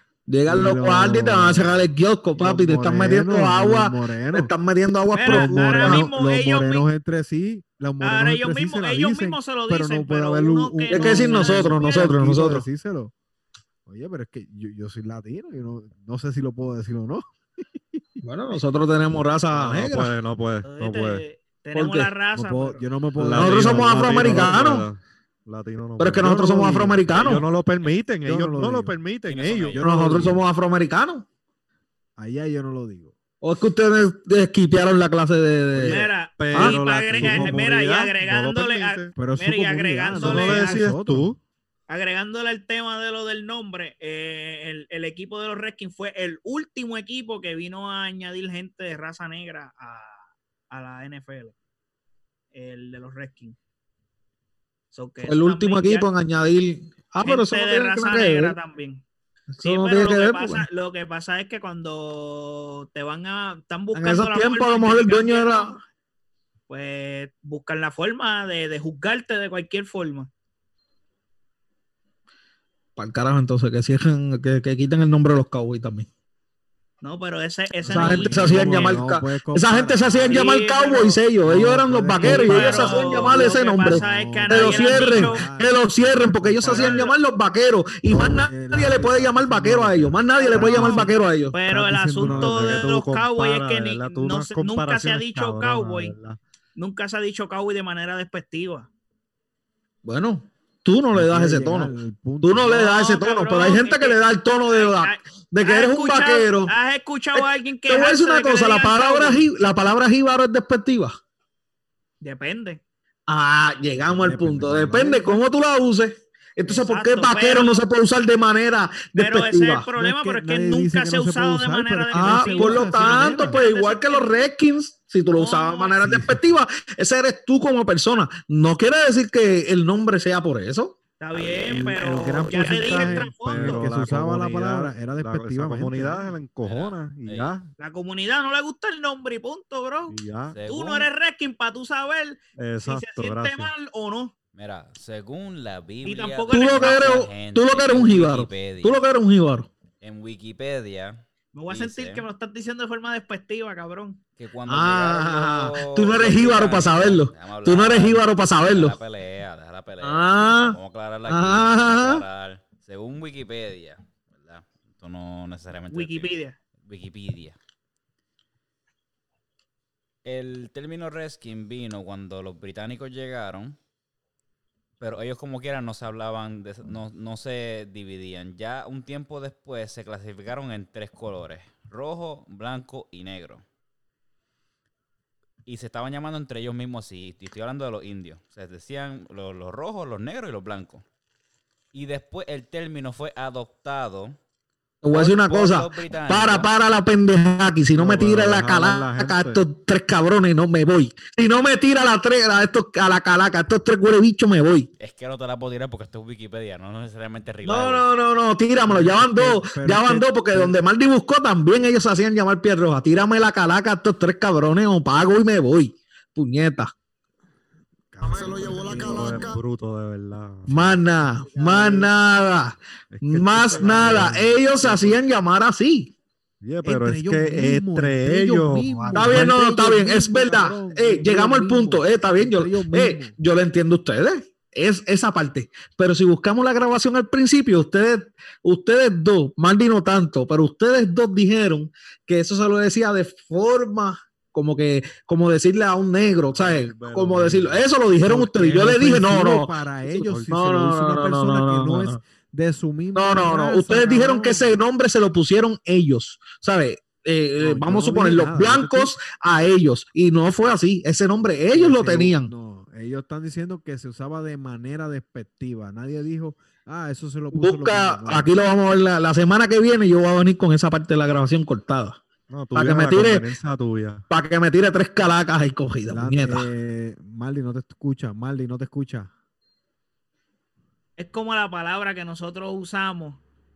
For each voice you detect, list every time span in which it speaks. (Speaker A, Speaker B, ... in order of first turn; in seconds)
Speaker A: 0.3-6.1, 10.9-12.7, 18.2-20.1, 21.7-22.1, 23.3-24.9, 26.0-27.4, 29.8-31.2, 33.4-36.8, 55.2-58.6, 59.5-60.7, 63.9-65.8, 73.0-76.1, 77.8-91.5, 100.0-106.7, 107.3-111.2, 113.3-119.9, 122.1-130.9, 146.5-149.7, 154.7-159.0, 160.0-162.2, 195.0-204.9, 207.6-216.9, 220.7-226.1, 229.1-249.7, 250.5-252.2, 253.1-262.5, 267.5-272.2, 272.7-273.4, 274.3-276.7
Speaker B: 0.5-4.5, 5.2-13.1, 13.8-17.2, 22.3-24.8, 26.2-27.0, 28.2-28.9, 29.8-30.4, 32.2-33.1, 37.1-37.6, 39.1-41.3, 77.8-80.5, 81.4-87.1, 88.1-92.9, 101.1-102.8, 114.0-115.4, 120.0-123.6, 126.0-126.4, 131.7-136.3, 208.8-210.8, 218.1-219.5, 221.6-222.1, 223.5-225.2, 226.8-233.3, 248.2-254.7, 257.6-259.1, 261.7-268.5, 276.1-279.3
Speaker C: 5.1-6.8, 8.0-12.1, 20.6-22.9, 35.8-40.9, 41.9-51.5, 52.5-53.5, 54.9-56.1, 57.2-59.0, 59.6-65.8, 66.7-70.3, 77.0-79.0, 80.0-81.2, 82.1-85.4, 86.6-87.1, 90.4-96.1, 96.8-98.9, 102.7-109.4, 112.2-112.8, 116.7-117.8, 119.2-124.4, 125.3-126.0, 131.2-133.8, 137.8-140.2, 140.7-144.3, 146.0-147.3, 151.5-154.2, 165.9-166.6, 281.2-283.4
Speaker D: 19.5-21.2, 23.2-29.8, 35.8-39.2, 40.1-41.4, 92.2-96.4, 132.1-137.7, 140.1-140.6, 142.6-143.7, 197.9-199.6, 218.9-221.0, 223.1-224.5, 226.6-229.6, 246.5-247.8, 250.0-250.5, 272.5-274.2
Speaker E: 29.3-29.9, 131.3-132.0, 136.6-137.5, 140.5-141.1, 144.5-149.0, 150.0-152.2, 154.4-167.6, 170.2-173.8, 175.0-183.6, 185.7-191.0, 191.9-194.4, 195.1-196.7, 205.0-208.1